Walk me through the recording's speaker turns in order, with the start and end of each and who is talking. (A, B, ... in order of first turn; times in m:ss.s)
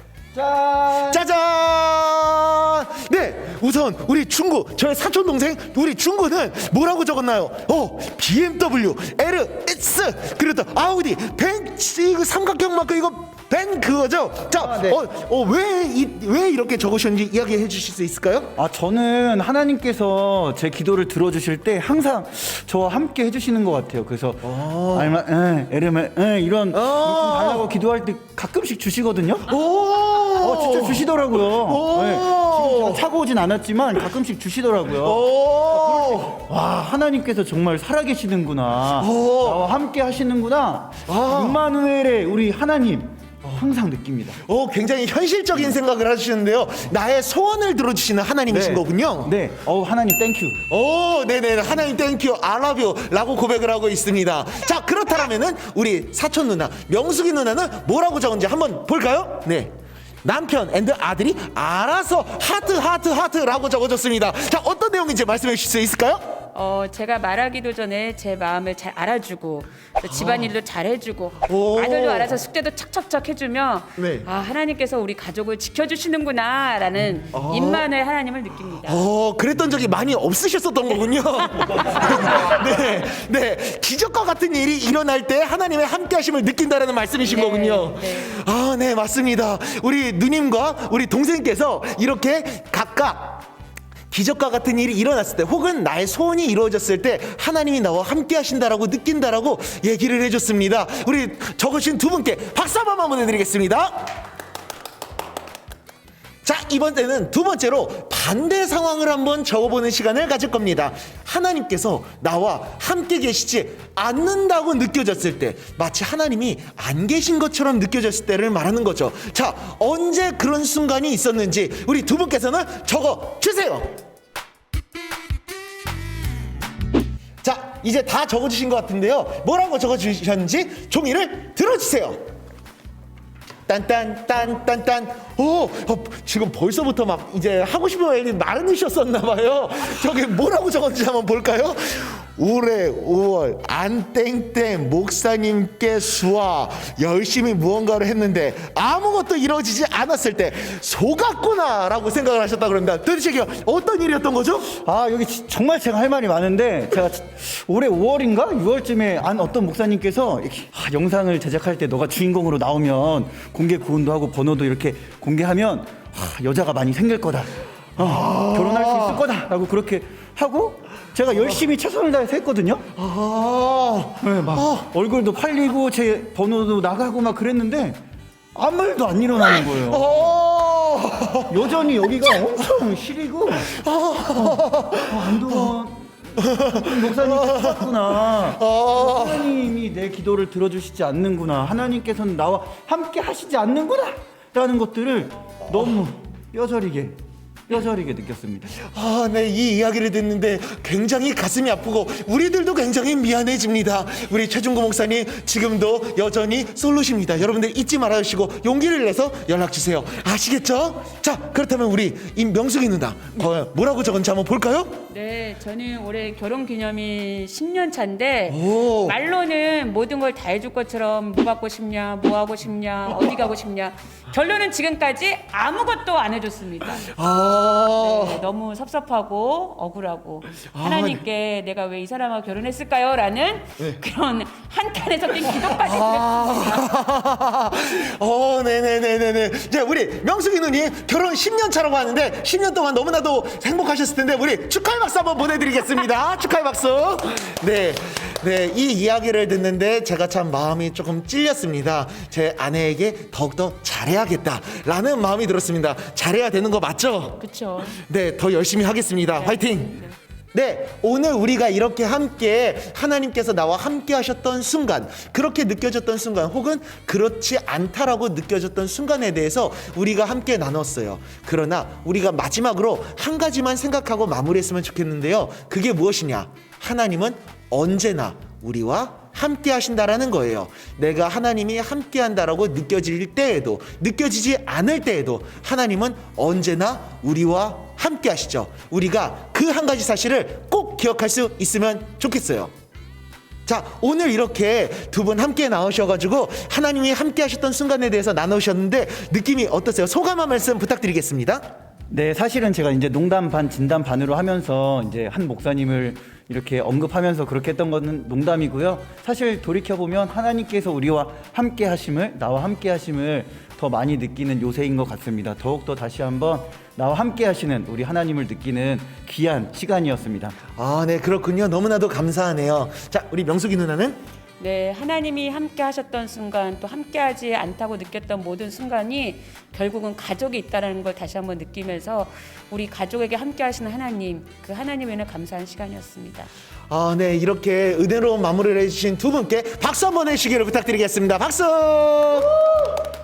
0:00.3-0:01.2 A
0:01.0-0:18.6 B
0:14.6-0:15.0 A
0:18.6-0:29.5 A
0:24.4-0:25.2 B
0:26.7-0:27.7 B
0:29.5-0:33.1 B
0:30.4-0:44.4 A
0:35.0-0:36.4 B
0:39.0-0:39.6 B
0:41.1-0:41.6 B
0:44.4-0:49.4 B
0:48.5-0:50.6 A
0:50.7-1:06.4 B
1:06.5-1:19.0 C
1:10.0-1:10.5 B
1:11.4-1:12.3 B
1:14.0-1:14.2 B
1:17.3-1:17.8 B
1:18.8-1:33.4 B
1:21.5-1:22.6 C
1:27.2-1:28.3 C
1:34.1-1:44.1 B
1:46.4-2:04.0 B
2:07.4-2:12.3 B
2:13.7-2:34.7 B
2:34.8-2:52.9 A
2:48.0-2:49.2 B
2:53.0-2:54.9 B
2:54.2-2:58.0 A
2:58.5-3:00.3 A
2:59.6-3:01.7 B
3:01.5-3:03.7 A
3:03.7-3:05.7 B
3:04.4-3:17.2 A
3:06.4-3:09.5 B
3:17.7-3:18.8 A
3:18.8-3:35.0 B
3:35.1-3:47.1 C
3:38.5-3:39.2 B
3:47.1-3:48.4 B
3:48.0-3:57.0 C
3:50.7-3:51.2 B
3:55.5-4:20.0 B
4:17.4-4:18.0 C
4:19.4-4:20.1 C
4:20.5-4:52.7 B
4:53.6-5:01.6 B
5:02.1-5:20.6 A
5:20.8-5:24.2 B
5:24.6-5:36.5 C
5:36.9-5:42.9 B